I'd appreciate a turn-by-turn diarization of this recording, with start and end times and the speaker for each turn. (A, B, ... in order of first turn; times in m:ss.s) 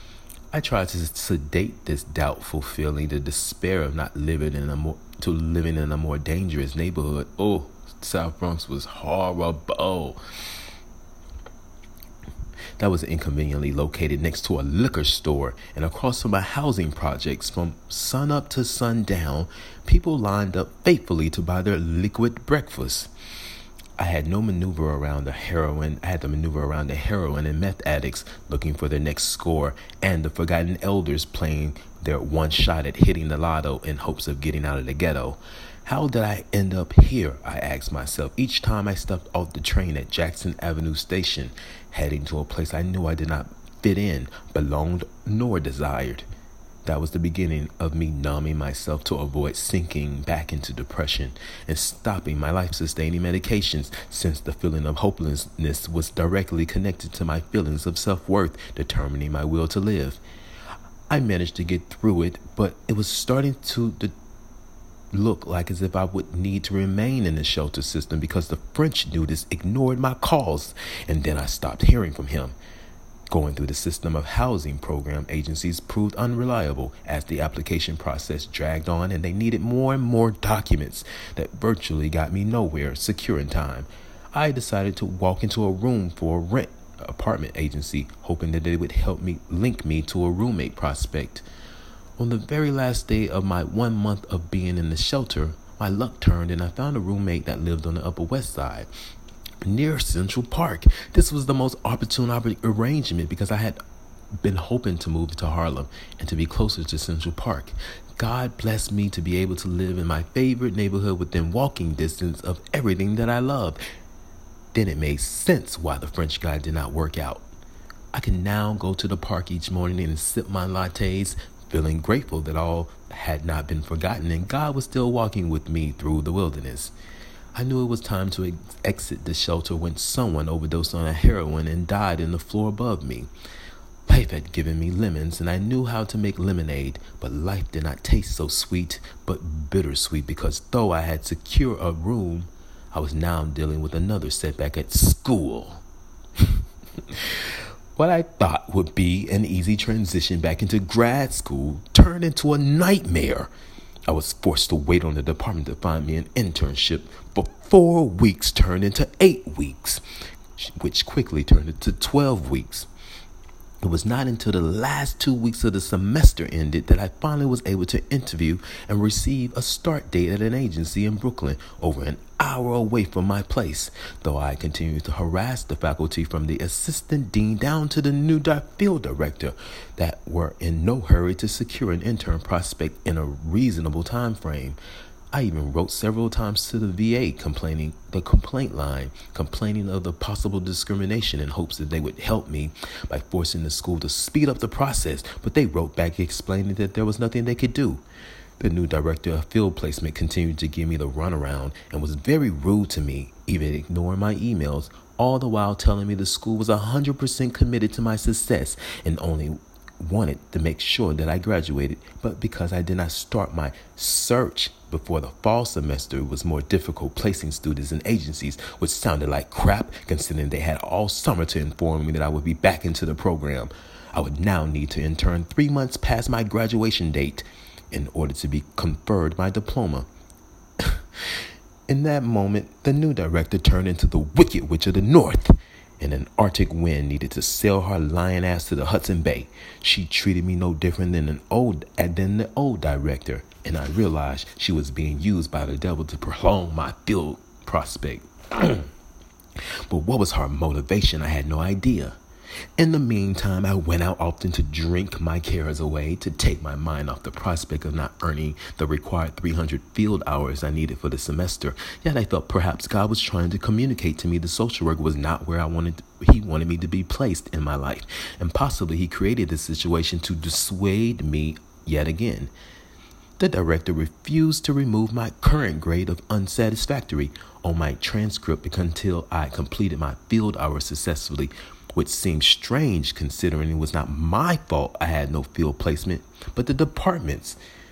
0:00.5-0:10.2 A
0:12.8-0:23.1 A
0:24.0-0:46.2 A
0:46.8-1:00.2 A
1:01.1-1:04.1 A
1:05.1-1:12.5 A
1:13.3-1:31.4 A
1:32.2-1:38.9 A
1:39.6-1:43.8 A
1:44.4-1:53.8 A
1:54.7-1:57.5 A
1:58.1-2:06.9 A
2:07.5-2:13.3 A
2:14.0-2:25.8 A
2:26.4-2:33.5 A
2:34.1-2:40.0 A
2:40.6-2:42.9 A
2:43.8-3:04.8 A
3:05.3-3:18.0 A
3:18.6-3:50.1 A
3:50.8-4:08.9 A
4:09.6-4:12.2 A
4:12.8-4:32.5 A
4:33.4-4:47.6 A